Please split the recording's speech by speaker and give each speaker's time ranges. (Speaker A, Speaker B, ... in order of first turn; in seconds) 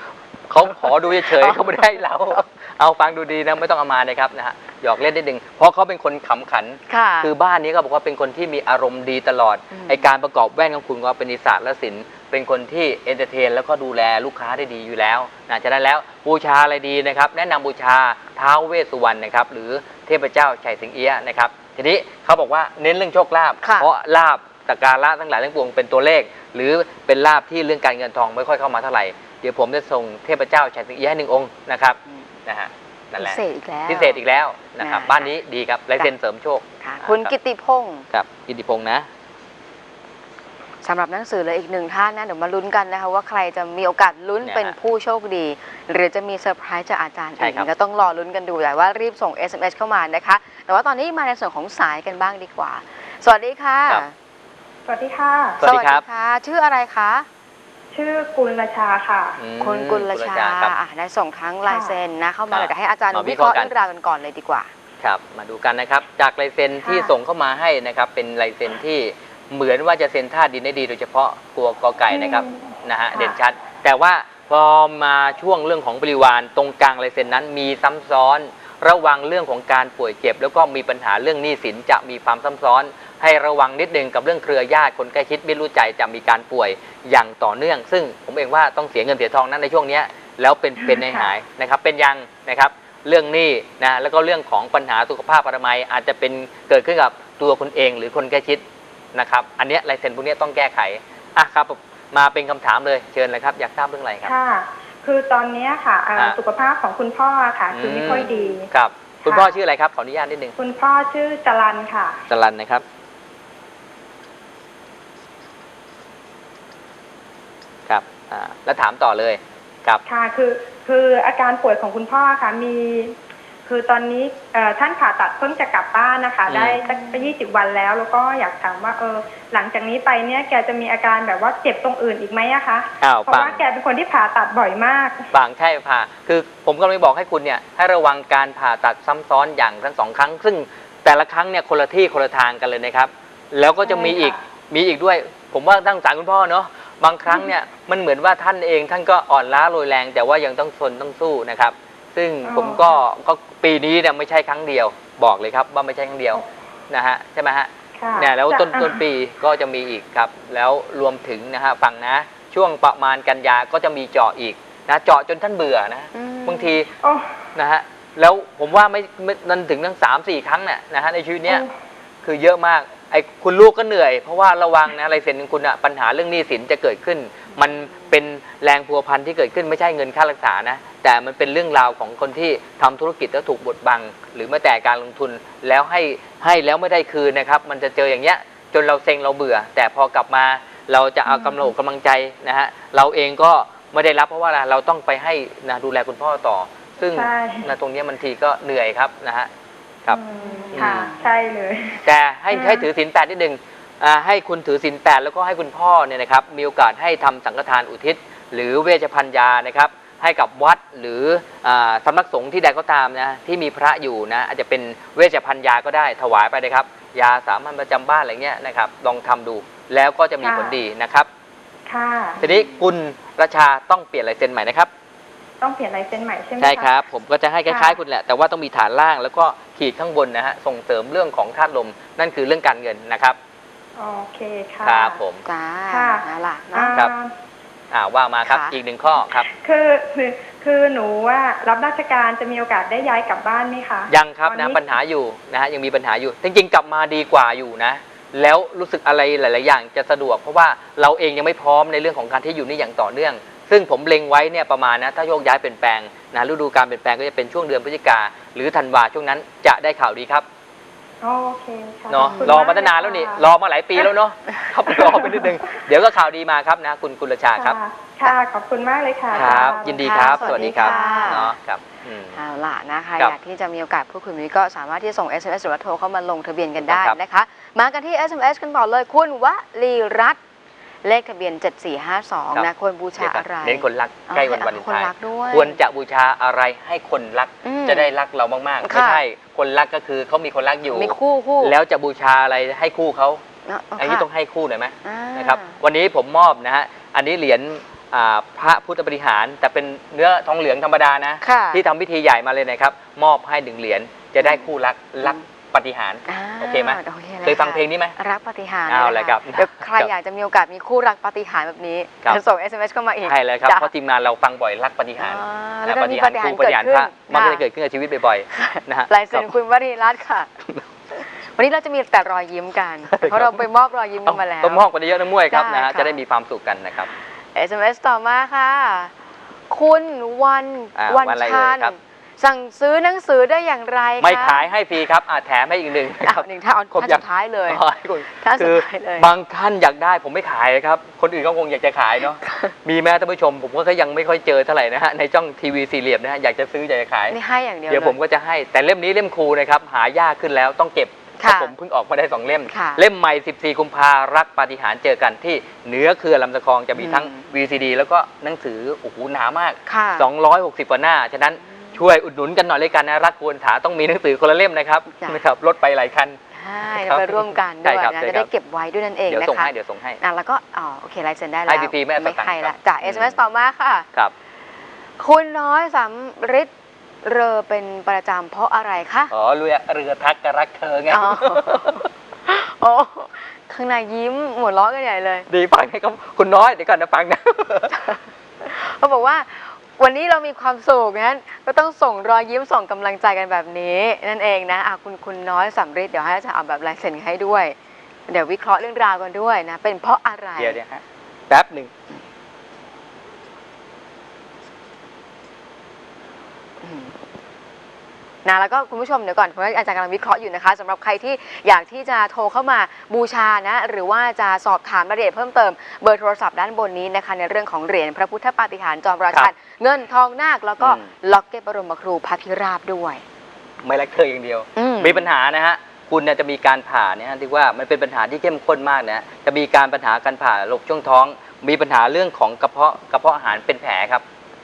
Speaker A: 0.5-37.3, 38.1-39.1, 44.4-44.8, 47.4-47.7, 55.6-56.0, 59.4-60.7, 62.5-63.7, 65.0-104.3, 107.7-110.6, 112.3-112.8, 117.9-120.0, 126.5-126.8, 133.0-133.6, 135.3-166.9, 167.6-171.7, 172.2-199.5, 200.7-201.1, 202.0-221.3, 222.4-224.9, 226.6-233.4, 234.8-235.4, 237.9-239.5, 244.1-260.5, 262.1-267.8, 269.3-272.4, 276.8-277.2, 282.5-293.4, 294.0-308.2, 308.9-310.1, 313.3-319.5, 323.1-323.6, 324.2-327.1, 331.0-331.9, 334.2-347.4, 347.9-368.5, 369.3-370.2, 371.7-373.4, 379.3-382.1, 385.5-388.0, 400.6-401.9, 420.8-421.1, 423.8-434.2
Speaker B: 1.2-1.8, 6.9-7.3, 9.7-10.1, 23.6-23.9, 33.2-34.2, 34.8-35.3, 36.8-38.1, 40.8-54.1, 55.6-57.3, 59.6-64.7, 108.2-108.5, 126.8-127.3, 166.1-166.8, 200.4-201.3, 235.4-237.1, 238.4-238.8, 262.2-262.6, 269.3-271.5, 272.3-280.4, 281.0-285.8, 287.6-288.1, 288.8-289.2, 290.9-291.8, 293.7-294.3, 295.0-295.8, 301.4-301.8, 304.4-304.7, 306.3-313.9, 315.2-317.6, 318.5-320.5, 321.1-324.9, 325.5-326.2, 327.6-329.1, 329.7-334.7, 336.2-339.3, 342.4-342.8, 347.3-348.2, 351.4-351.7, 352.7-353.0, 357.0-357.5, 359.9-360.3, 365.1-365.4, 366.6-374.1, 375.2-376.7, 377.2-379.3, 381.1-385.5, 388.0-397.8, 398.3-400.8, 406.8-407.2, 408.4-423.2, 424.8-425.3
Speaker C: 54.9-55.6, 57.9-59.4, 61.7-62.0, 66.8-67.1, 72.1-73.4, 90.8-91.3, 104.2-108.7, 109.2-109.6, 110.6-112.2, 120.1-135.3, 143.8-144.4, 152.4-153.0, 158.0-159.0, 167.0-167.3, 197.1-197.7, 200.1-202.8, 220.4-220.8, 221.9-222.4, 225.6-226.9, 227.7-228.0, 234.0-235.2, 235.9-237.3, 239.5-244.8, 261.2-263.4, 265.0-265.6, 267.6-271.4